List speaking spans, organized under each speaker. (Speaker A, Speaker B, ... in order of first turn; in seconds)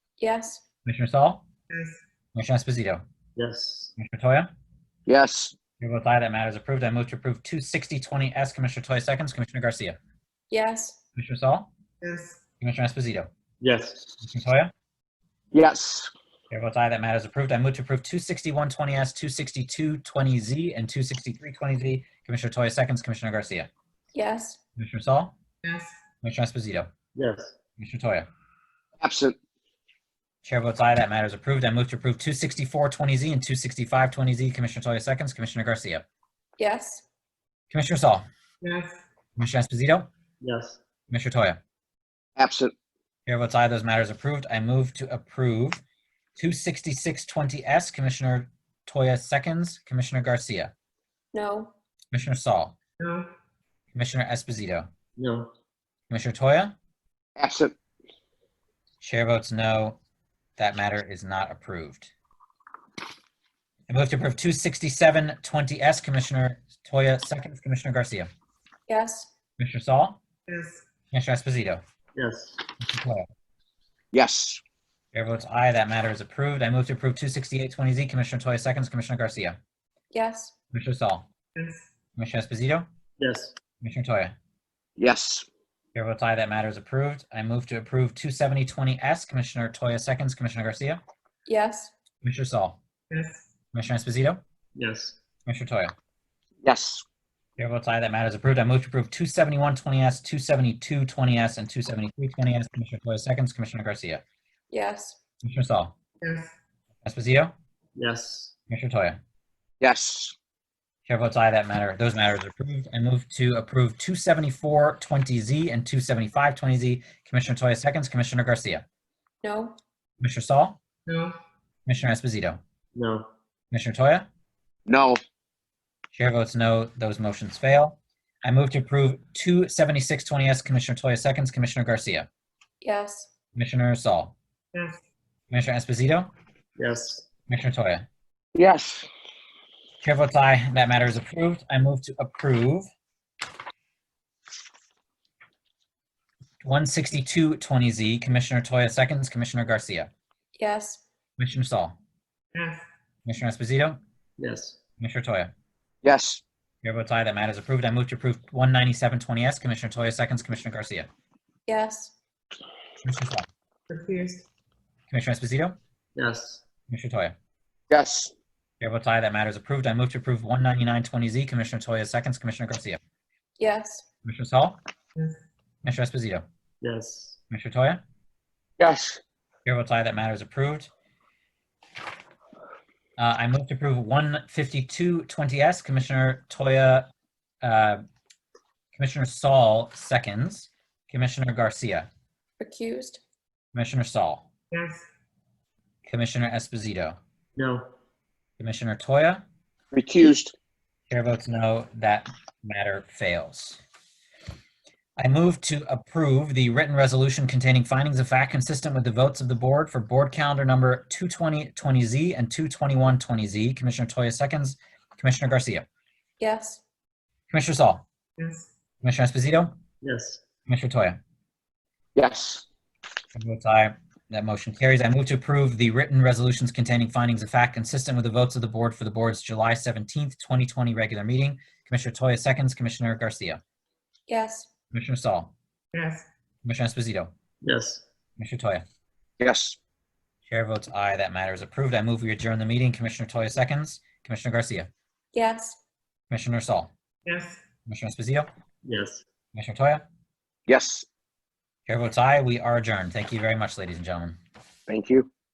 Speaker A: 0.2-0.6, 10.5-11.0, 24.1-24.6, 36.6-37.0, 51.3-51.7, 68.9-69.3, 80.1-80.5, 91.5-91.9, 104.7-105.2, 119.4-119.8, 132.8-133.3, 150.6-151.0, 161.7-162.1, 173.6-174.1, 192.6-193.2, 216.4-216.8, 234.3-234.7, 245.3-245.8
Speaker B: 0.8-1.4, 2.3-3.0, 4.0-4.5, 5.8-10.0, 11.2-11.7, 12.6-13.3, 14.2-14.7, 16.5-23.7, 24.8-25.3, 26.2-26.9, 27.8-28.3, 30.4-36.0, 37.7-38.2, 39.4-40.1, 41.1-41.6, 43.3-45.8, 46.4-50.7, 52.1-52.8, 53.9-54.9, 56.1-56.8, 59.0-60.0, 60.6-62.1, 63.9-68.3, 69.6-70.2, 71.1-71.8, 72.8-73.3, 75.1-79.6, 80.7-81.3, 82.2-82.9, 83.8-84.3, 85.9-91.0, 92.2-92.8, 93.7-94.4, 95.5-95.9, 97.6-104.2, 105.4-105.9, 107.0-107.5, 108.7-109.2, 111.1-118.8, 120.2-120.8, 121.9-122.6, 123.7-124.3, 126.1-132.3, 133.6-134.3, 135.5-136.3, 137.5-138.1, 140.0-142.9, 146.6-150.1, 151.4-152.0, 153.3-154.0, 155.0-155.5, 156.8-161.1, 163.0-163.5, 165.1-165.8, 166.9-167.3, 168.8-173.0, 174.2-174.8, 175.8-176.4, 177.5-178.0, 179.7-180.9, 183.2-187.1, 187.6-188.1, 188.9-192.1, 193.7-194.5, 196.1-197.2, 198.6-199.4, 201.1-203.8, 205.2-215.8, 217.5-218.0, 219.0-219.7, 220.7-221.2, 223.3-233.6, 234.9-235.5, 236.6-237.3, 238.4-238.8, 240.5-244.9, 246.3-246.9, 247.9-248.5, 249.5-250.0, 251.9-254.4
Speaker C: 3.4-3.9, 13.6-14.0, 27.1-27.5, 40.4-40.8, 55.2-55.5, 72.2-72.6, 83.2-83.5, 94.8-95.2, 108.0-108.5, 122.9-123.3, 136.8-137.3, 154.4-154.8, 166.2-166.6, 176.8-177.4, 197.6-197.9, 220.0-220.4, 237.6-238.0, 248.8-249.2
Speaker D: 5.1-5.5, 15.5-16.1, 29.0-29.4, 42.4-42.7, 57.4-57.8, 74.1-74.6, 85.0-85.5, 96.6-97.0, 109.8-110.3, 124.9-125.2, 138.6-139.1, 156.0-156.4, 167.9-168.3, 178.8-179.2, 199.9-200.5, 222.2-222.7, 239.4-239.8, 250.7-251.1, 254.9-255.3
Speaker E: 12.0-12.3, 38.6-39.0, 53.0-53.3, 70.5-70.8, 93.1-93.4, 106.2-106.5, 121.1-121.3, 152.6-152.8, 163.9-164.4, 194.7-195.0, 235.9-236.2, 247.3-247.6